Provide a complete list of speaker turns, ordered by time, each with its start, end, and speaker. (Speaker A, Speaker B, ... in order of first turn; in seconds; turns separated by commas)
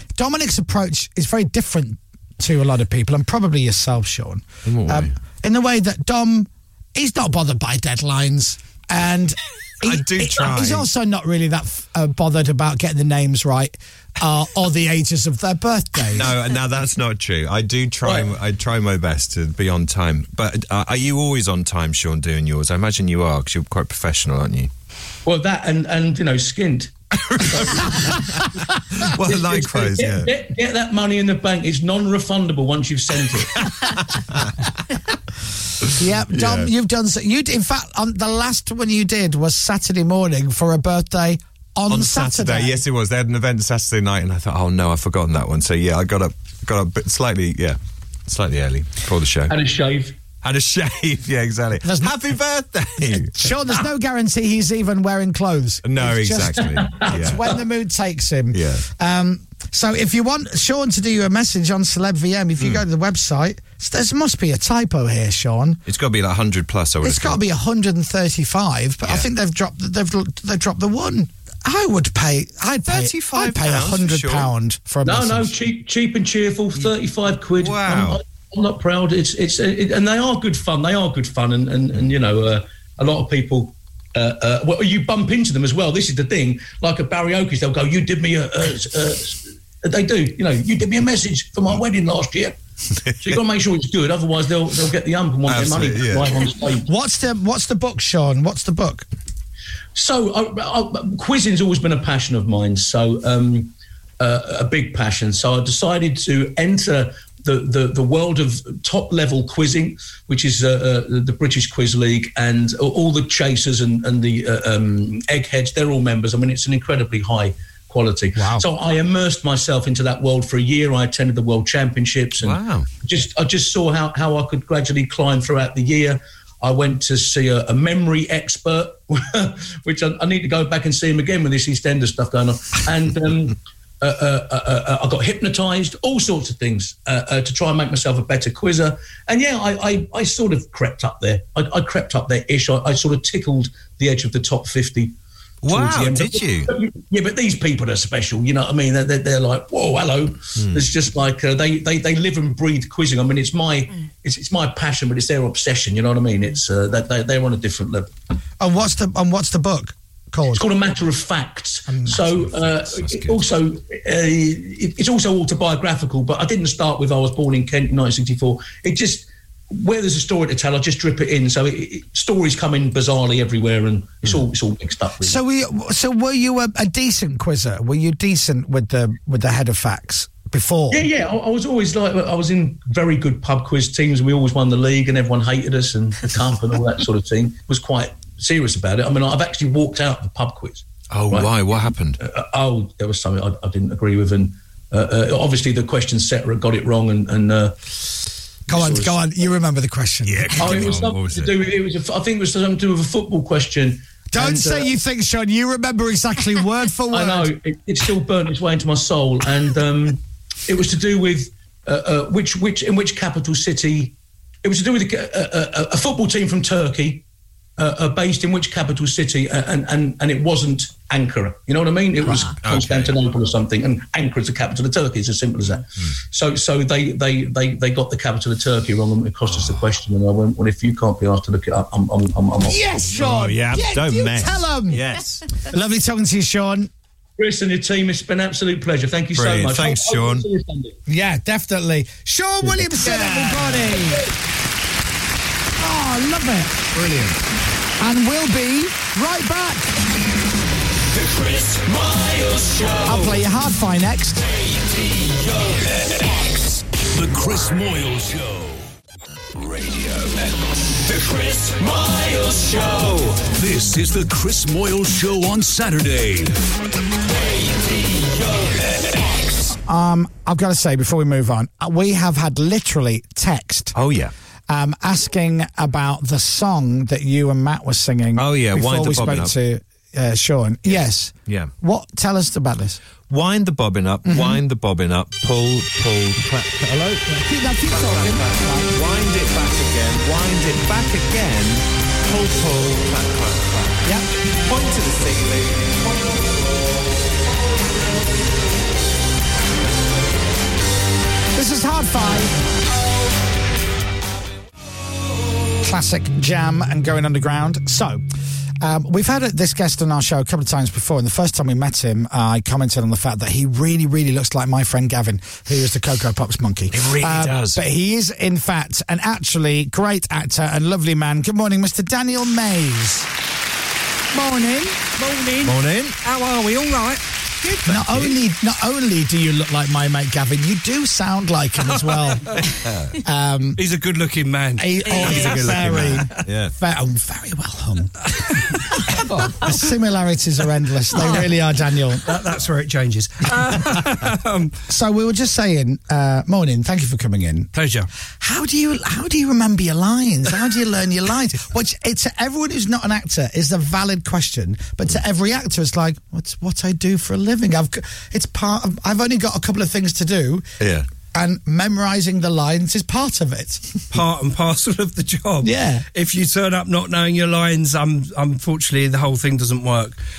Speaker A: 0.2-16.3, Speaker B: 4.7-5.1, Speaker B: 9.8-10.9, Speaker B: 16.1-24.7, Speaker C: 18.0-18.3, Speaker C: 25.3-28.1, Speaker B: 27.2-30.3, Speaker C: 29.2-33.6, Speaker B: 33.8-34.5, Speaker A: 36.0-42.8, Speaker B: 36.3-36.7, Speaker B: 41.9-49.5, Speaker C: 49.5-50.2, Speaker B: 50.4-53.4, Speaker A: 51.8-52.2, Speaker A: 53.1-65.8, Speaker B: 55.8-57.4, Speaker C: 56.8-57.1, Speaker B: 58.5-58.9, Speaker B: 65.9-67.4, Speaker A: 67.0-75.5, Speaker B: 72.9-74.5, Speaker C: 75.0-92.5, Speaker B: 77.6-78.2, Speaker C: 93.2-96.9, Speaker B: 95.5-96.3, Speaker A: 96.9-99.1, Speaker C: 100.0-145.1, Speaker A: 118.4-118.6, Speaker B: 122.4-122.9, Speaker B: 145.6-146.7, Speaker C: 145.7-158.1, Speaker B: 150.6-150.9, Speaker A: 158.6-160.6, Speaker C: 160.5-175.4, Speaker A: 161.9-162.2, Speaker B: 162.4-163.4, Speaker A: 175.2-181.0, Speaker C: 180.9-191.7, Speaker B: 191.1-192.2, Speaker C: 192.2-197.8, Speaker C: 198.7-199.2, Speaker A: 198.7-200.9, Speaker B: 200.3-201.5, Speaker C: 200.6-204.9, Speaker A: 204.3-207.5, Speaker C: 207.1-217.2, Speaker C: 217.8-232.9, Speaker B: 222.3-223.2, Speaker A: 232.7-235.0, Speaker B: 233.1-235.4, Speaker A: 235.7-236.9, Speaker C: 237.4-241.0, Speaker B: 239.3-240.5, Speaker A: 241.1-244.3, Speaker C: 242.6-242.9, Speaker B: 243.0-243.9, Speaker A: 245.8-246.9, Speaker B: 246.9-247.4, Speaker A: 248.0-249.9, Speaker D: 251.1-253.3, Speaker A: 253.1-254.4, Speaker D: 254.5-258.9, Speaker D: 259.6-266.5, Speaker D: 267.2-269.7, Speaker A: 269.7-273.9, Speaker B: 273.9-274.3, Speaker A: 274.7-283.0, Speaker B: 278.4-279.6, Speaker B: 280.9-281.7, Speaker B: 283.3-287.3, Speaker A: 284.2-284.6, Speaker A: 287.3-288.9, Speaker B: 287.9-294.0, Speaker B: 294.7-296.7, Speaker A: 301.5-302.6, Speaker A: 305.8-308.2, Speaker A: 308.8-323.3, Speaker B: 316.9-317.8, Speaker A: 324.3-325.1, Speaker E: 325.2-327.2, Speaker B: 325.6-326.2, Speaker B: 327.6-328.4, Speaker A: 327.9-332.6, Speaker E: 331.9-332.3, Speaker B: 332.6-333.2, Speaker A: 333.2-333.8, Speaker E: 333.8-335.7, Speaker A: 334.8-342.4, Speaker B: 335.1-336.7, Speaker E: 338.7-339.9, Speaker E: 341.1-341.5, Speaker E: 342.2-344.8, Speaker A: 344.9-347.7, Speaker E: 347.7-348.1, Speaker A: 348.4-360.7, Speaker B: 360.8-361.1, Speaker A: 361.3-364.0, Speaker E: 364.1-370.2, Speaker A: 365.6-366.1